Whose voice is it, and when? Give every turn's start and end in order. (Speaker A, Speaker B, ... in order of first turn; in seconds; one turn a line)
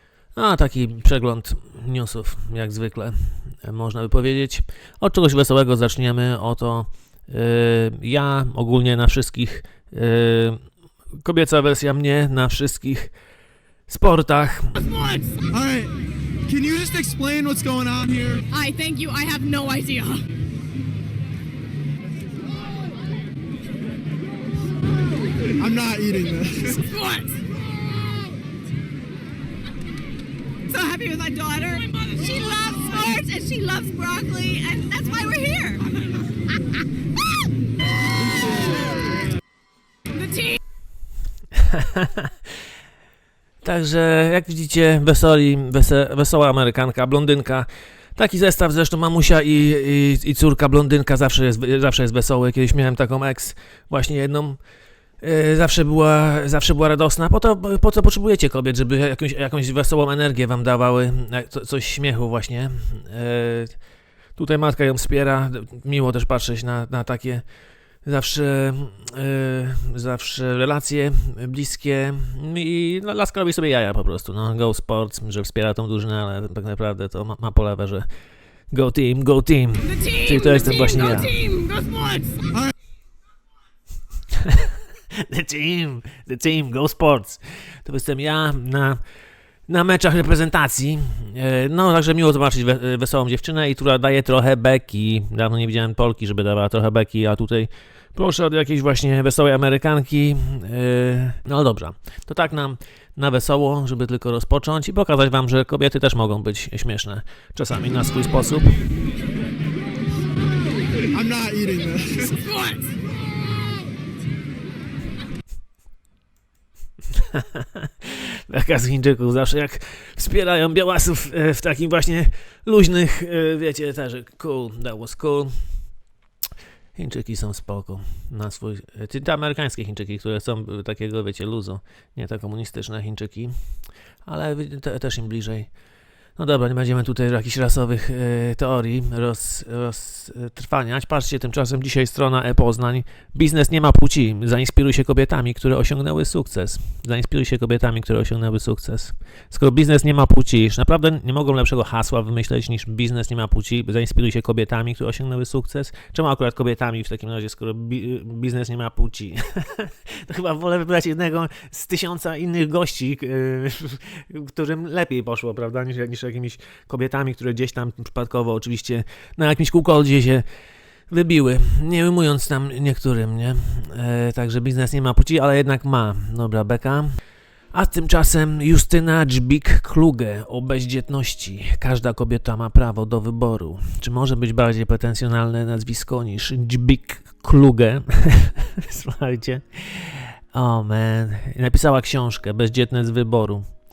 Speaker A: 0.3-10.6
Speaker A: 11.2-13.1
Speaker A: 13.9-14.8
Speaker B: 15.5-15.9
Speaker B: 16.5-18.4
Speaker C: 18.5-20.2
Speaker B: 25.6-26.8
Speaker C: 26.8-27.4
Speaker C: 30.7-35.9
Speaker C: 40.1-40.5
Speaker A: 41.6-42.3
Speaker A: 43.6-54.6
Speaker A: 55.2-63.8
Speaker A: 64.4-67.4
Speaker A: 68.0-78.1
Speaker A: 78.7-81.4
Speaker C: 79.9-82.5
Speaker A: 84.4-89.0
Speaker A: 89.7-108.8
Speaker B: 111.1-112.3
Speaker C: 112.3-112.9
Speaker A: 117.2-125.5
Speaker A: 127.0-133.6
Speaker A: 134.2-135.7
Speaker A: 136.4-170.4
Speaker A: 171.1-177.1
Speaker A: 177.7-193.7